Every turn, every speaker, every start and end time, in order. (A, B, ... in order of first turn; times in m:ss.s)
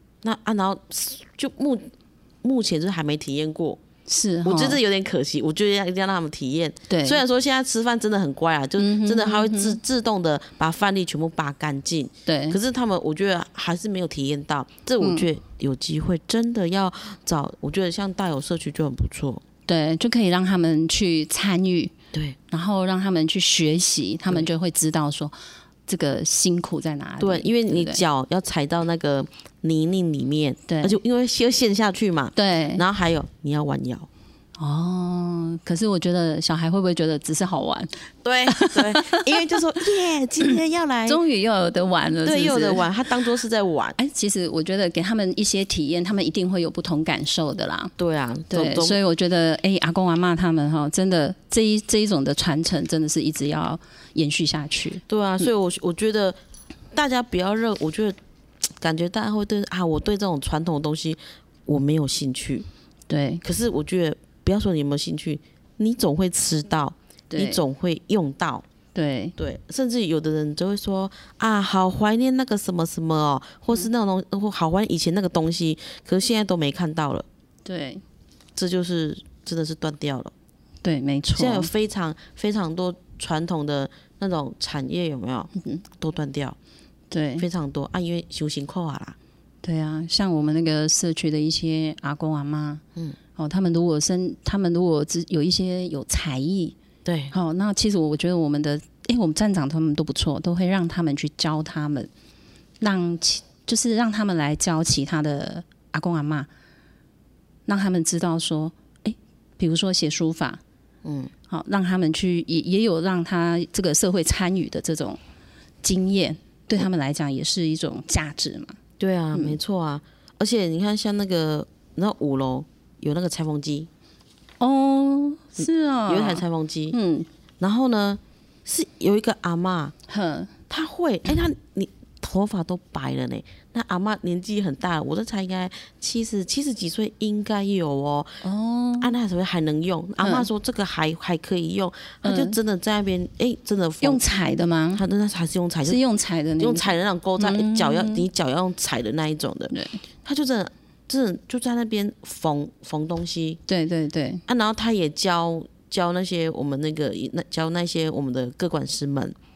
0:00.2-0:03.8 A
0:04.1-0:04.8 B
0:04.4-0:19.4 A
0:06.9-0:07.2 B
0:08.8-0:09.8 B
0:12.2-0:12.6 B
0:15.0-0:15.3 B
0:19.7-0:21.9 B
0:22.5-0:25.3 B
0:25.9-0:28.0 B
0:27.2-0:34.1 A
0:30.7-0:31.0 B
0:32.3-0:32.8 B
0:34.6-0:37.9 B
0:38.2-0:41.2 A
0:38.5-0:39.3 B
0:41.1-0:42.9 B
0:42.2-0:44.0 A
0:44.0-0:47.9 B
0:48.0-0:49.0 A
0:48.5-0:55.0 B
0:55.1-0:56.4 A
0:56.9-1:02.7 A
1:03.1-1:03.4 B
1:03.4-1:08.6 A
1:07.3-1:07.6 B
1:08.9-1:09.3 B
1:09.4-1:17.2 A
1:17.6-1:18.0 B
1:18.6-1:20.3 A
1:20.8-1:21.7 B
1:21.2-1:26.6 A
1:25.6-1:25.8 B
1:27.1-1:27.4 B
1:27.4-1:29.2 A
1:29.6-1:32.8 B
1:33.4-1:36.8 B
1:37.0-1:37.3 A
1:37.3-1:42.1 B
1:42.8-1:46.5 B
1:47.7-1:50.6 B
1:51.0-1:51.3 A
1:51.5-1:55.2 B
1:55.8-1:58.8 B
1:59.0-2:03.9 A
2:04.6-2:07.3 B
2:05.6-2:07.0 A
2:07.6-2:09.9 A
2:10.1-2:10.5 B
2:10.7-2:18.4 A
2:18.4-2:19.1 B
2:19.0-2:24.2 A
2:20.2-2:20.5 B
2:22.2-2:22.6 B
2:24.0-2:25.0 B
2:24.9-2:26.0 A
2:25.8-2:28.2 B
2:26.6-2:29.7 A
2:29.7-2:30.0 B
2:30.2-2:33.6 A
2:33.7-2:34.4 B
2:34.5-2:39.4 A